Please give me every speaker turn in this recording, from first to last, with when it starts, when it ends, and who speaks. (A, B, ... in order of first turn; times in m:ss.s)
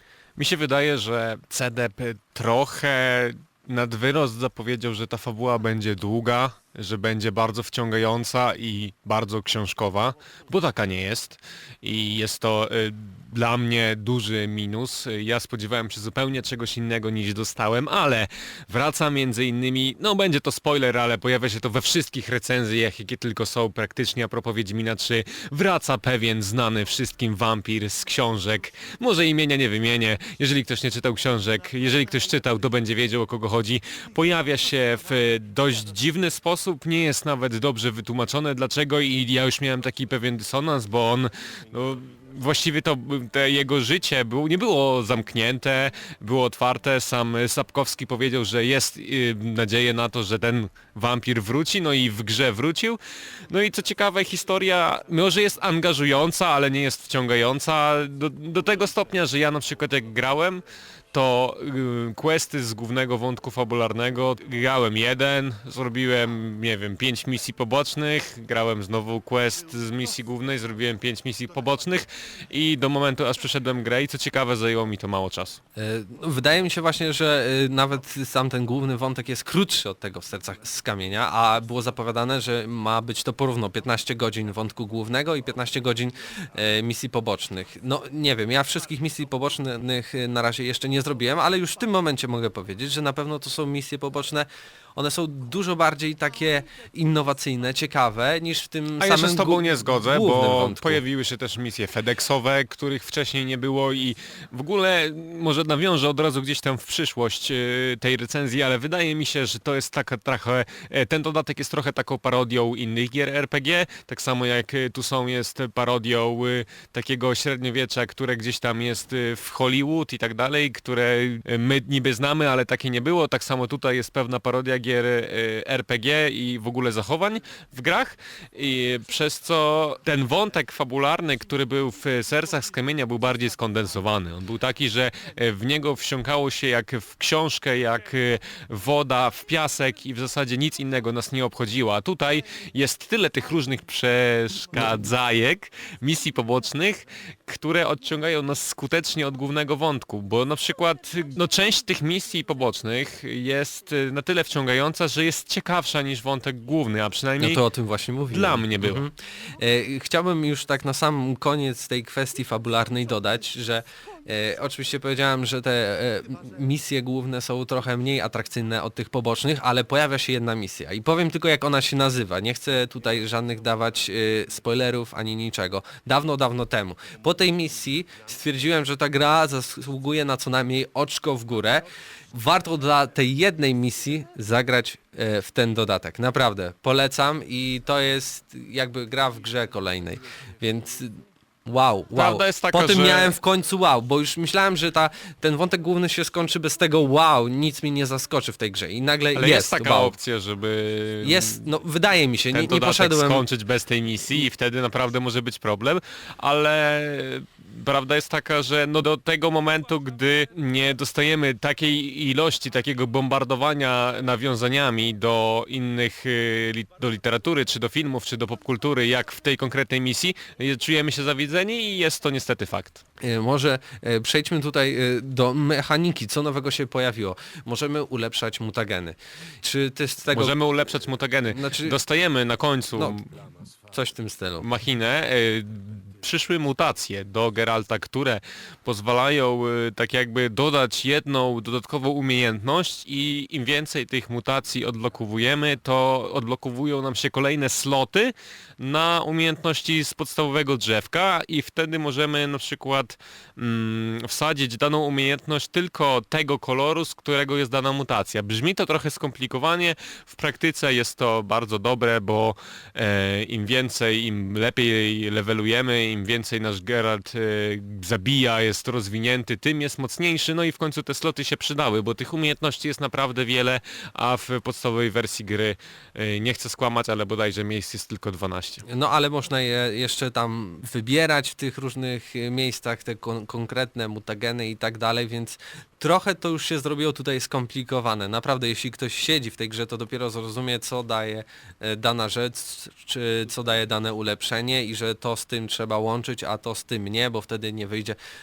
0:00.4-1:15.6 A
1:15.8-1:41.0 B
1:39.0-2:37.6 A
2:37.4-3:20.1 B
2:38.3-2:39.0 A
3:12.1-3:13.3 A
3:19.3-3:21.6 A
3:21.2-3:23.4 B
3:22.5-3:43.0 A
3:43.2-3:50.6 B
3:50.3-3:53.3 A
3:51.5-3:52.0 B
3:53.0-3:53.2 B
3:53.9-3:54.7 B
3:54.6-4:38.8 A
4:38.9-4:58.2 B